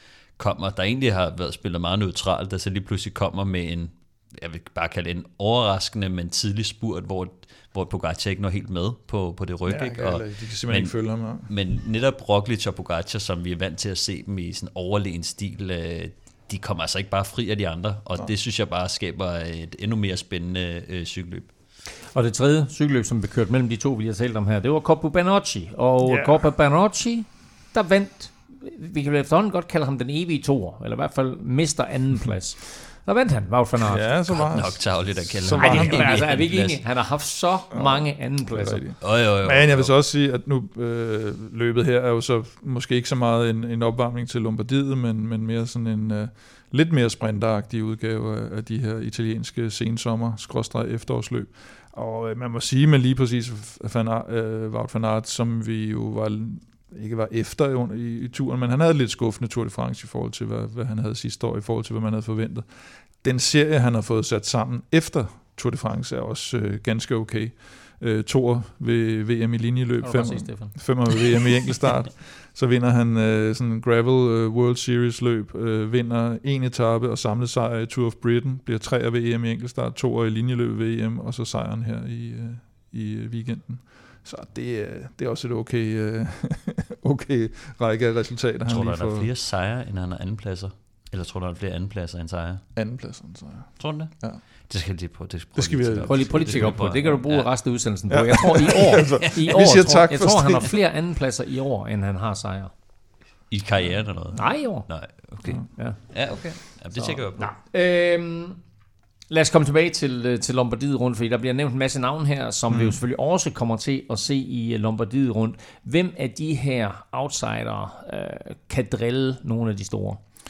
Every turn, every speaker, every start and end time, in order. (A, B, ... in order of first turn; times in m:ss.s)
0:00.4-0:21.5 A
0:09.6-0:11.5 B
0:22.1-0:34.0 C
0:26.0-0:26.5 B
0:33.8-0:36.3 B
0:34.3-0:36.8 A
0:35.6-0:38.8 C
0:37.7-1:29.3 B
0:39.0-0:39.9 A
1:10.0-1:10.9 C
1:28.6-1:32.6 A
1:32.8-1:34.4 B
1:33.8-1:37.6 A
1:35.5-1:36.8 B
1:36.0-1:42.7 C
1:38.1-1:40.7 B
1:43.5-1:47.5 A
1:43.8-1:44.4 B
1:44.4-1:44.9 C
1:45.8-1:48.6 C
1:49.3-2:00.2 C
1:52.7-1:53.0 B